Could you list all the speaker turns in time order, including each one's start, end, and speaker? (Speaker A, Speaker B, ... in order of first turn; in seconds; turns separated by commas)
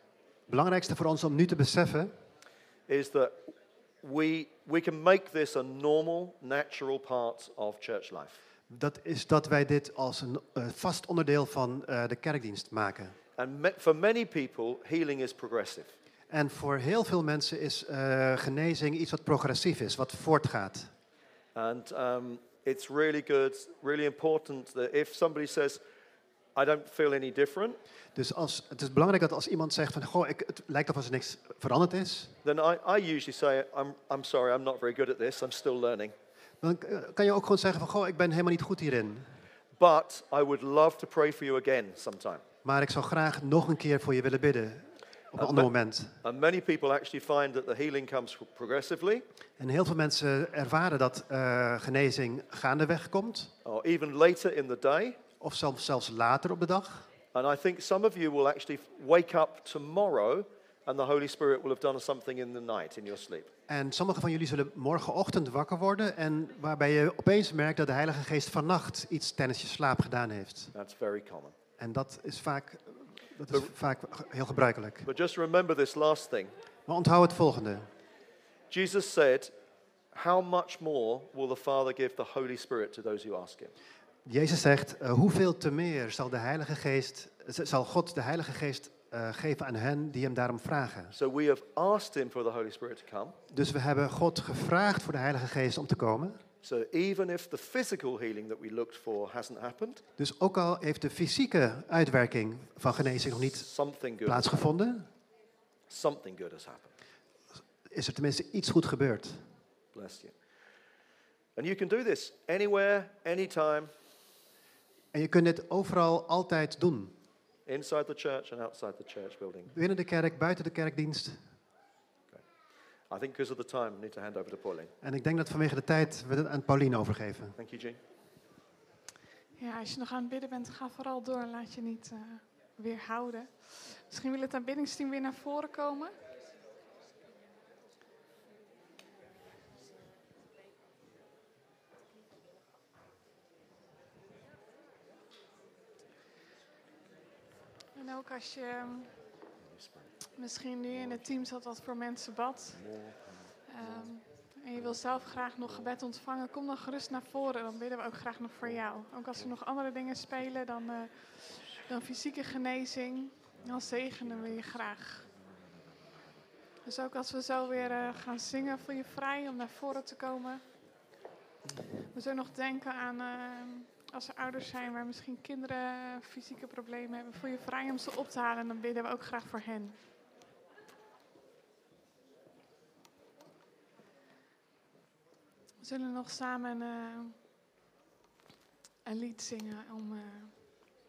Speaker A: 0.5-2.1, Speaker B: 2.9-8.4, Speaker A: 8.7-13.2, Speaker B: 13.4-15.9, Speaker A: 16.3-20.9, Speaker B: 21.6-25.8, Speaker B: 26.6-27.8, Speaker A: 28.1-32.4, Speaker B: 32.4-36.1, Speaker A: 36.6-39.3, Speaker B: 39.8-42.4, Speaker A: 42.6-46.2, Speaker B: 45.4-45.7, Speaker B: 46.2-49.2, Speaker A: 49.6-53.5, Speaker B: 53.6-55.2, Speaker A: 55.4-57.1, Speaker B: 57.3-63.5, Speaker A: 63.7-70.7, Speaker B: 70.7-71.5, Speaker A: 71.8-75.1, Speaker B: 75.0-76.5, Speaker A: 76.9-77.9, Speaker B: 78.7-79.5, Speaker B: 80.1-83.7, Speaker A: 84.3-91.2, Speaker B: 91.1-93.4, Speaker A: 93.5-96.4, Speaker B: 96.6-100.0, Speaker A: 100.2-103.7, Speaker B: 103.5-104.6, Speaker A: 104.3-105.1, Speaker B: 105.9-106.9, Speaker A: 107.9-109.5, Speaker B: 109.9-110.3, Speaker B: 111.6-113.9, Speaker A: 115.1-117.2, Speaker B: 117.7-119.7, Speaker A: 119.7-121.5, Speaker B: 123.1-124.9, Speaker A: 125.0-127.6, Speaker B: 127.6-128.0, Speaker C: 129.6-136.1, Speaker C: 147.9-149.1, Speaker B: 149.6-150.1, Speaker C: 150.4-152.8, Speaker B: 150.9-151.5, Speaker B: 152.7-154.2, Speaker C: 153.7-165.3, Speaker B: 154.8-155.9, Speaker B: 163.6-164.7, Speaker B: 165.3-165.6, Speaker C: 166.8-170.6, Speaker B: 167.8-168.2, Speaker C: 172.1-180.0, Speaker C: 185.8-187.4, Speaker C: 189.1-190.8